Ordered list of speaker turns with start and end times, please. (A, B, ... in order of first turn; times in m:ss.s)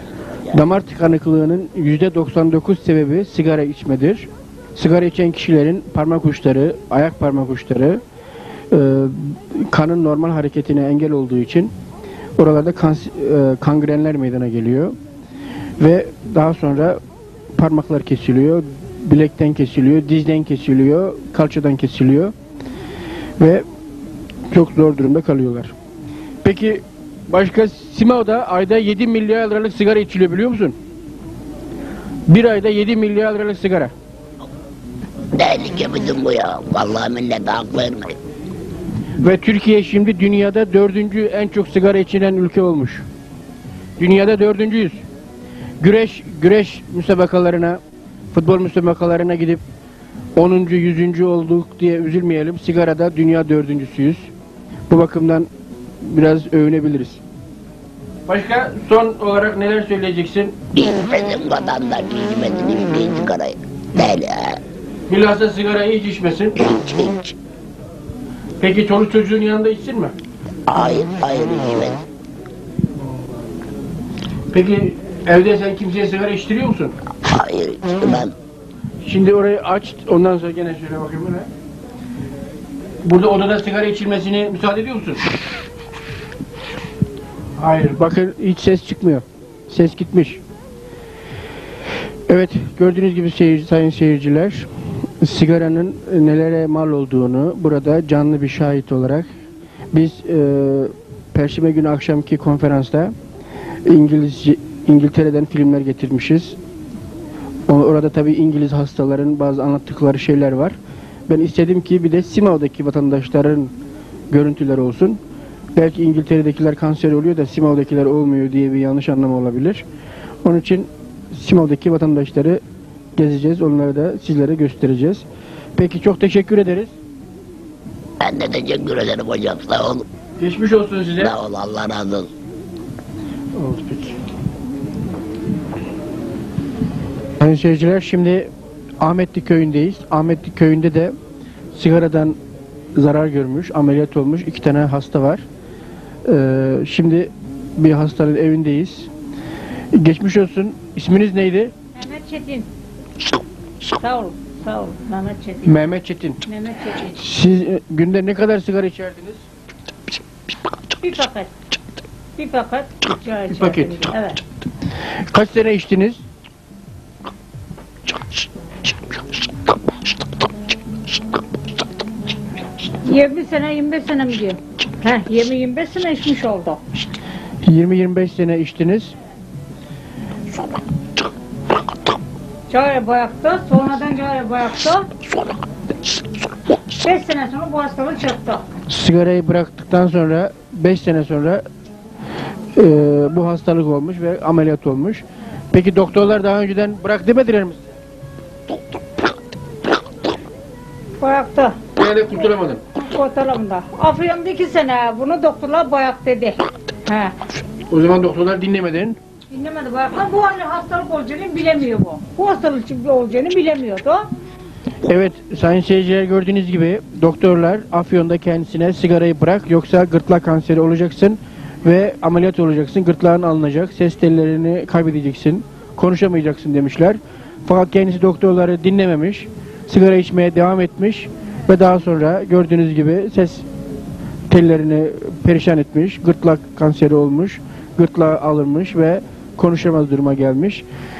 0:00.5-0:08.0 A
0:08.7-0:11.7 A
0:12.4-0:15.0 A
0:15.8-0:17.0 A
0:17.5-0:22.3 A
0:23.4-0:23.6 A
0:24.5-0:25.7 A
0:26.4-0:30.8 A
0:32.3-0:33.9 A
0:35.3-0:38.2 B
0:39.2-0:43.0 A
0:44.0-0:45.0 A
0:45.8-0:47.8 A
0:48.3-0:49.6 A
0:50.4-0:54.3 A
0:54.9-0:55.5 A
0:56.0-0:57.2 A
0:58.3-1:00.6 A
1:00.7-1:04.6 B
1:05.1-1:06.6 A
1:06.6-1:07.3 B
1:08.6-1:10.1 A
1:10.7-1:12.0 B
1:14.5-1:17.0 A
1:17.2-1:18.3 B
1:19.0-1:21.5 A
1:23.0-1:25.2 A
1:27.6-1:30.4 A
1:32.3-1:34.7 A
1:35.2-1:39.3 A
1:39.9-1:43.1 A
1:43.8-1:46.6 A
1:47.7-1:53.7 A
1:54.3-1:55.2 A
1:55.7-1:59.8 A
2:00.4-2:02.6 A
2:03.2-2:07.0 A
2:08.2-2:10.0 B
2:10.4-2:11.3 A
2:11.2-2:12.3 B
2:13.6-2:14.2 A
2:17.4-2:21.1 A
2:21.7-2:22.4 A
2:23.0-2:25.4 A
2:26.2-2:29.1 A
2:29.9-2:31.7 A
2:31.9-2:32.7 C
2:34.0-2:35.8 C
2:35.6-2:36.4 A
2:36.5-2:37.2 C
2:37.1-2:39.4 A
2:41.0-2:41.5 C
2:42.4-2:44.4 C
2:43.5-2:44.0 A
2:45.2-2:46.2 A
2:53.0-2:56.8 C
2:57.6-2:59.1 A
3:02.7-3:05.1 C
3:06.9-3:08.6 C
3:08.9-3:11.6 A
3:12.7-3:17.9 A
3:21.2-3:21.8 C
3:22.0-3:22.8 A
3:23.0-3:27.3 C
3:27.9-3:29.2 A
3:29.5-3:34.3 C
3:35.0-3:53.6 A
3:54.5-4:00.8 A